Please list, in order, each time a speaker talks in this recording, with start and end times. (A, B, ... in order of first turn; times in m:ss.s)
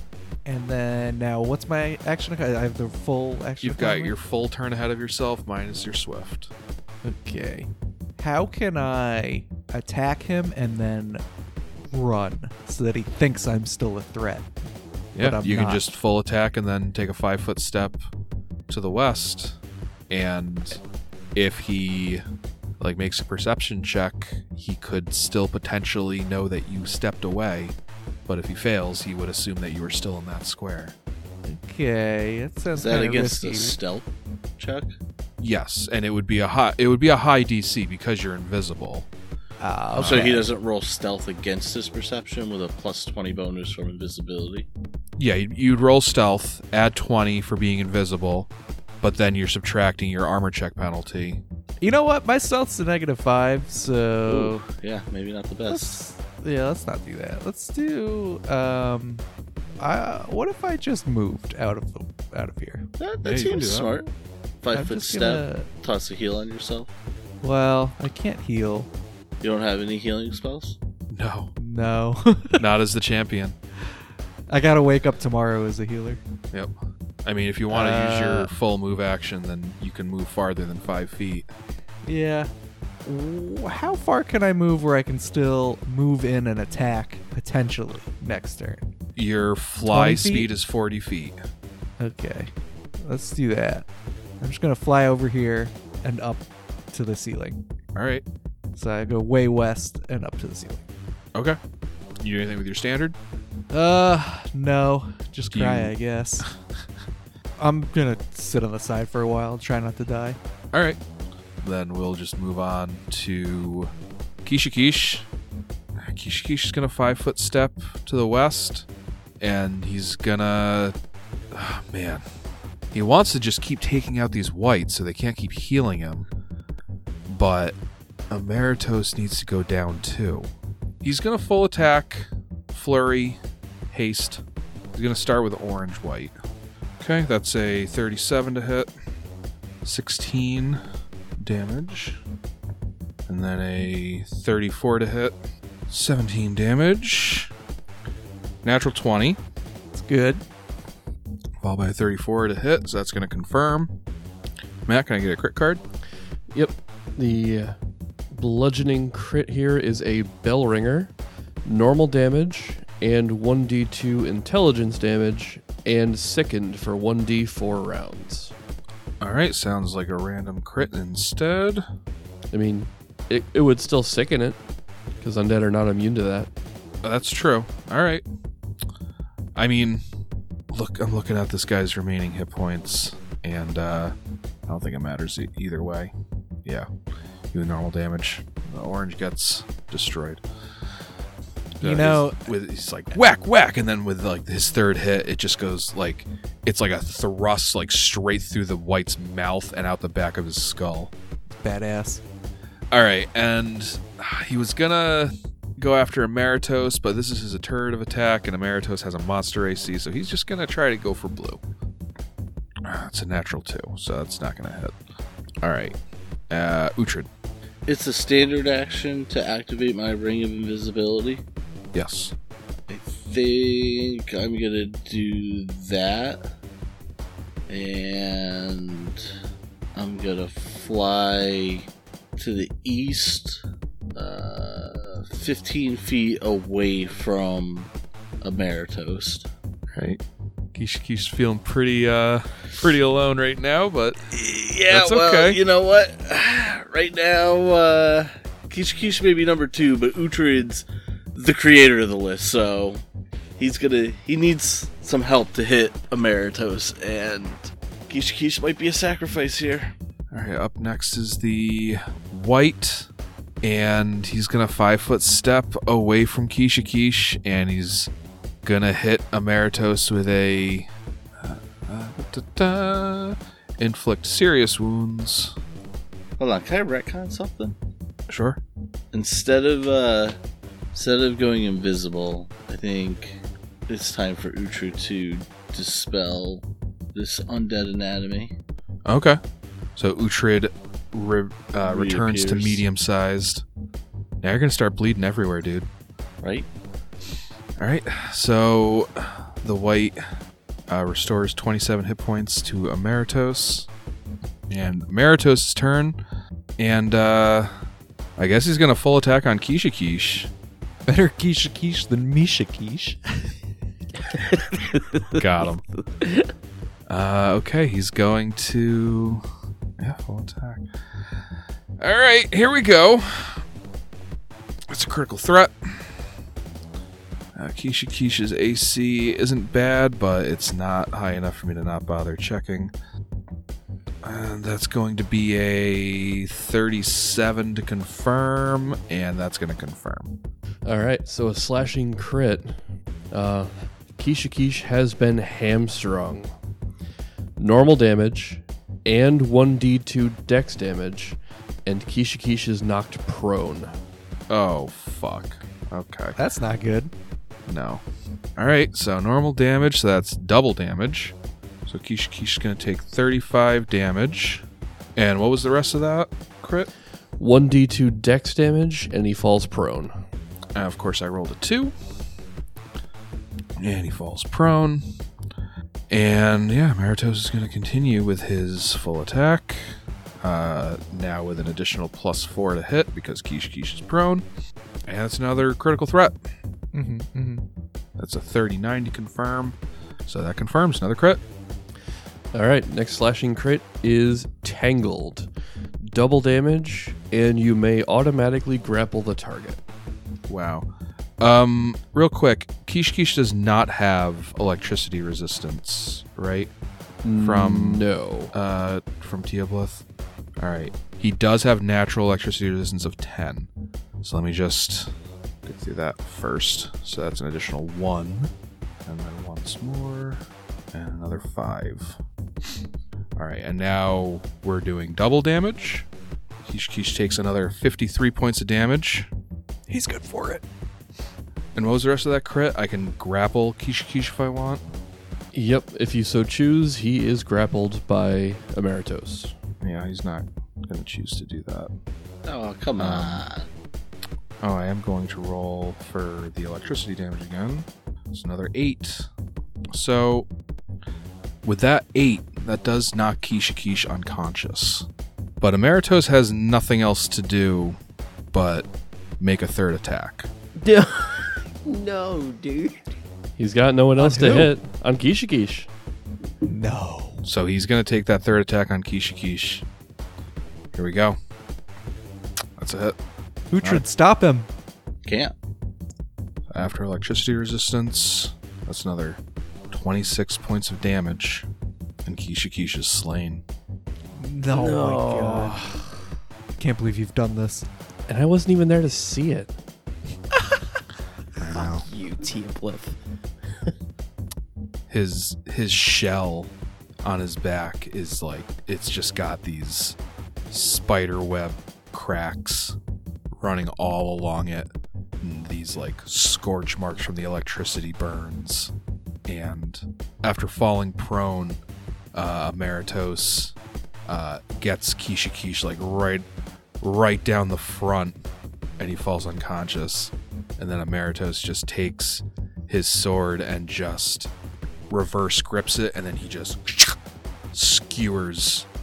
0:00.4-0:04.1 A
0:03.6-0:06.5 B
0:07.1-0:07.6 A
0:08.2-0:11.2 A
0:11.9-0:14.5 A
0:15.1-0:18.0 B
0:15.2-0:15.8 A
0:18.7-0:19.6 B
0:20.1-0:20.8 B
0:21.3-0:22.2 B
0:22.8-0:27.8 B
0:28.3-0:30.9 B
0:31.4-0:33.8 A
0:32.7-0:34.9 C
0:35.4-0:39.1 B
0:39.6-0:40.5 A
0:40.0-0:40.4 B
0:40.0-0:44.7 C
0:45.2-0:48.5 B
0:49.0-0:51.4 B
0:51.8-0:54.6 A
0:54.3-0:56.0 C
0:55.7-0:59.2 A
0:59.8-1:02.8 A
1:03.0-1:04.1 C
1:03.2-1:03.9 B
1:04.6-1:06.9 C
1:04.7-1:05.7 A
1:07.4-1:08.9 A
1:09.4-1:10.8 C
1:11.1-1:11.5 B
1:11.6-1:12.6 A
1:12.6-1:13.6 B
1:14.5-1:16.2 A
1:17.2-1:21.5 B
1:17.7-1:18.5 A
1:22.0-1:22.5 A
1:23.0-1:28.9 A
1:29.2-1:31.4 B
1:29.9-1:30.5 A
1:32.0-1:33.8 A
1:34.4-1:37.6 A
1:37.9-1:38.2 B
1:38.8-1:40.8 A
1:42.2-1:43.2 B
1:43.7-1:46.4 A
1:45.5-1:46.5 B
1:47.6-1:50.4 A
1:50.7-1:51.0 B
1:51.6-1:53.9 B
1:54.4-1:55.3 B
1:56.0-1:58.8 B
1:59.4-2:00.9 B
2:01.5-2:02.2 B
2:02.9-2:06.3 B
2:07.3-2:07.8 B
2:08.3-2:10.5 B
2:11.0-2:13.4 B
2:13.9-2:14.4 B
2:14.9-2:16.3 B
2:17.0-2:18.9 B
2:19.8-2:20.8 B
2:21.4-2:22.2 B
2:23.3-2:25.4 B
2:25.9-2:27.5 B
2:28.6-2:29.4 B
2:29.9-2:30.4 A
2:31.6-2:33.9 B
2:34.8-2:35.8 B
2:36.5-2:37.8 D
2:38.3-2:41.1 D
2:41.6-2:48.5 D
2:49.2-2:51.8 B
2:52.5-2:54.6 D
2:55.2-2:56.5 D
2:57.0-2:58.2 B
2:59.5-3:00.0 B
3:00.7-3:04.1 B
3:04.7-3:06.1 B
3:07.5-3:10.4 B
3:11.8-3:21.1 B
3:11.8-3:12.5 A
3:21.6-3:22.2 A
3:22.9-3:31.6 B
3:32.8-3:34.9 B
3:35.6-3:36.0 B
3:36.5-3:37.3 B
3:37.8-3:41.4 C
3:41.9-3:42.3 B
3:42.9-3:46.4 C
3:47.7-3:49.2 C
3:49.9-3:53.6 C
3:54.1-3:57.9 C
3:58.4-3:59.5 C
3:59.9-4:00.2 B
4:00.7-4:04.2 B
4:04.3-4:13.0 C
4:04.9-4:05.6 B
4:13.6-4:19.9 C
4:20.3-4:23.1 B
4:23.6-4:28.1 B
4:28.6-4:35.5 B
4:36.4-4:37.8 C
4:38.3-4:38.6 B
4:39.1-4:40.4 C
4:40.9-4:48.5 C
4:49.0-4:49.4 B
4:50.0-4:53.6 B
4:51.8-4:52.8 C
4:54.4-4:55.9 B
4:56.4-4:56.7 C
4:57.8-5:00.2 B
5:00.9-5:03.9 B
5:04.7-5:06.2 B
5:06.8-5:07.7 B
5:08.4-5:10.5 B
5:11.0-5:13.5 A
5:14.3-5:15.4 E
5:15.4-5:15.8 B
5:16.0-5:16.5 E
5:17.1-5:19.4 B
5:20.0-5:20.8 B
5:22.0-5:23.6 B
5:24.9-5:26.2 B
5:27.5-5:32.9 B
5:34.2-5:40.3 B
5:40.8-5:42.8 D
5:43.3-5:46.5 D
5:47.6-5:53.9 D
5:54.5-5:56.4 B
5:56.4-5:57.1 A
5:57.7-5:58.0 B
5:58.6-6:01.3 B
6:01.8-6:04.6 B
6:05.2-6:06.9 B
6:07.4-6:10.1 D
6:10.7-6:11.9 B
6:13.8-6:15.0 B
6:16.1-6:24.4 B
6:25.0-6:26.4 B
6:26.9-6:27.6 A
6:28.2-6:31.4 B
6:32.5-6:35.5 D
6:36.1-6:39.8 D
6:40.5-6:40.9 B
6:41.4-6:46.7 B
6:47.2-6:48.5 D
6:47.4-6:50.0 B
6:50.6-6:53.7 B
6:54.2-6:55.1 B
6:55.6-6:58.5 B
6:59.0-7:02.2 B
7:03.4-7:06.1 B
7:06.6-7:09.3 B
7:09.9-7:10.6 A
7:11.7-7:14.8 B
7:15.5-7:19.5 D
7:19.8-7:21.9 B
7:22.4-7:23.6 C
7:23.0-7:23.4 B
7:24.6-7:29.3 B
7:29.9-7:30.5 B
7:31.6-7:35.1 B
7:35.6-7:38.0 B
7:38.5-7:38.9 B
7:39.4-7:40.5 B
7:40.8-7:43.1 E
7:43.6-7:45.9 D
7:44.2-7:44.7 A
7:46.6-7:47.4 A
7:47.4-7:49.8 B
7:50.9-7:51.4 B
7:52.8-7:53.2 B
7:53.7-7:54.7 A
7:55.2-7:55.5 C
7:56.7-7:59.4 B
7:59.9-8:01.7 B
8:02.2-8:03.6 B
8:04.3-8:05.8 A
8:04.7-8:05.9 E
8:06.8-8:07.9 A
8:08.3-8:09.7 D
8:11.6-8:12.1 B
8:11.7-8:13.2 E
8:15.1-8:16.7 B
8:17.2-8:20.2 B
8:20.7-8:23.0 B
8:23.5-8:24.9 B
8:25.4-8:28.9 B
8:29.5-8:31.8 B
8:32.3-8:33.7 B
8:34.3-8:36.4 B
8:37.0-8:38.4 B
8:39.0-8:44.5 B
8:45.1-8:47.2 B
8:47.7-8:48.9 B